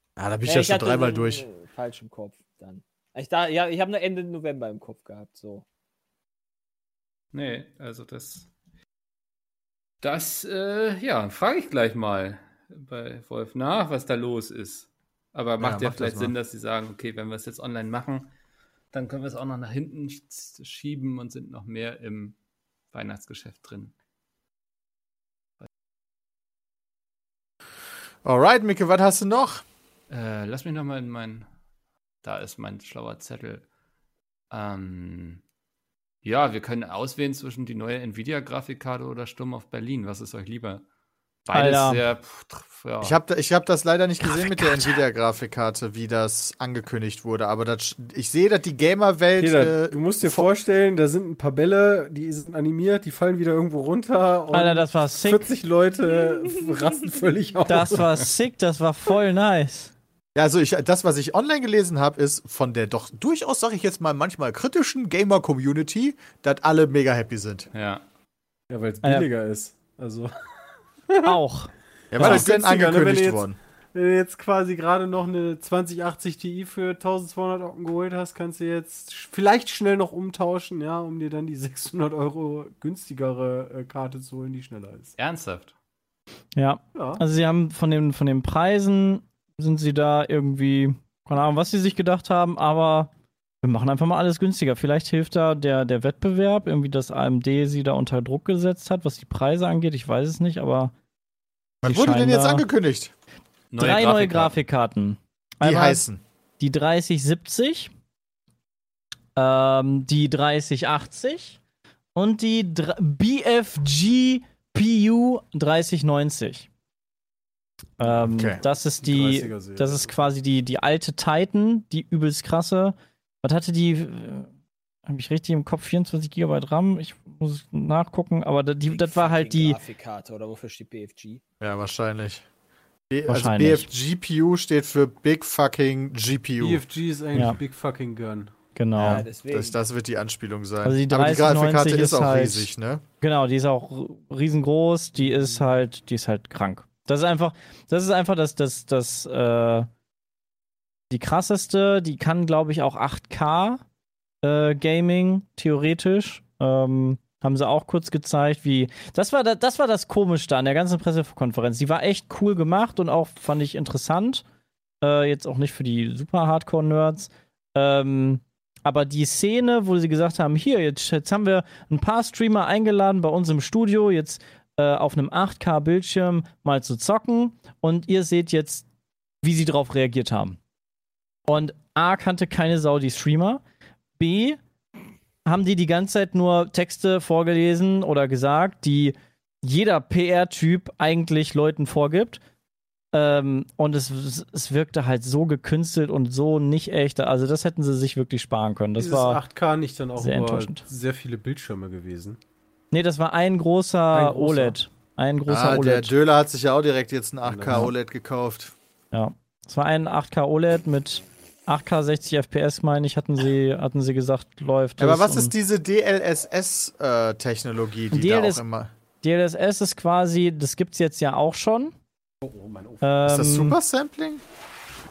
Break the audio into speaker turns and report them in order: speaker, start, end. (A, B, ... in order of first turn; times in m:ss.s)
0:00.2-0:01.5 A
0:00.5-0:05.6 B
0:07.3-0:08.5 C
0:10.0-0:18.3 C
0:15.6-0:16.3 A
0:18.9-0:22.4 C
0:22.9-0:23.9 C
0:28.2-0:29.6 A
0:30.1-0:31.5 C
0:32.2-0:33.6 C
0:34.5-0:35.4 C
0:36.2-0:40.8 C
0:41.5-0:43.2 C
0:41.5-0:42.0 D
0:43.0-0:50.4 A
0:44.3-0:44.9 D
0:49.4-0:58.1 E
0:54.5-0:55.5 D
0:56.6-0:57.1 B
0:57.7-0:59.9 D
1:00.4-1:07.7 A
1:07.7-1:08.0 C
1:08.7-1:10.3 E
1:11.1-1:11.4 E
1:11.2-1:12.5 D
1:12.1-1:13.6 A
1:12.2-1:25.1 E
1:25.2-1:25.7 C
1:26.6-1:40.9 D
1:27.0-1:27.2 E
1:41.8-1:43.1 A
1:41.9-1:42.6 D
1:43.7-1:44.6 C
1:43.8-1:46.0 D
1:45.6-1:46.2 A
1:46.6-1:47.9 D
1:49.4-1:51.6 D
1:52.2-1:56.7 D
1:58.0-2:04.5 D
1:58.2-1:58.6 A
1:59.0-2:00.3 E
2:05.1-2:09.8 D
2:08.9-2:11.4 B
2:11.6-2:12.4 A
2:13.1-2:16.8 A
2:13.3-2:13.9 D
2:16.6-2:18.5 E
2:18.8-2:19.2 D
2:19.0-2:23.0 A
2:19.0-2:19.8 B
2:20.8-2:22.7 D
2:23.2-2:29.9 D
2:25.2-2:25.6 E
2:31.1-2:33.8 D
2:34.4-2:44.4 D
2:45.0-2:58.8 D
2:59.4-3:00.6 D
3:01.5-3:03.6 D
3:04.2-3:04.6 D
3:05.4-3:12.4 D
3:13.1-3:19.4 D
3:19.0-3:22.4 E
3:20.2-3:20.8 D
3:22.9-3:26.1 D
3:24.1-3:24.8 E
3:25.5-3:28.7 A
3:27.4-3:27.9 E
3:29.1-3:35.5 D
3:35.0-3:38.9 A
3:38.1-3:38.6 D
3:39.2-3:42.0 D
3:42.4-3:43.2 E
3:43.0-3:43.8 D
3:43.2-3:44.4 A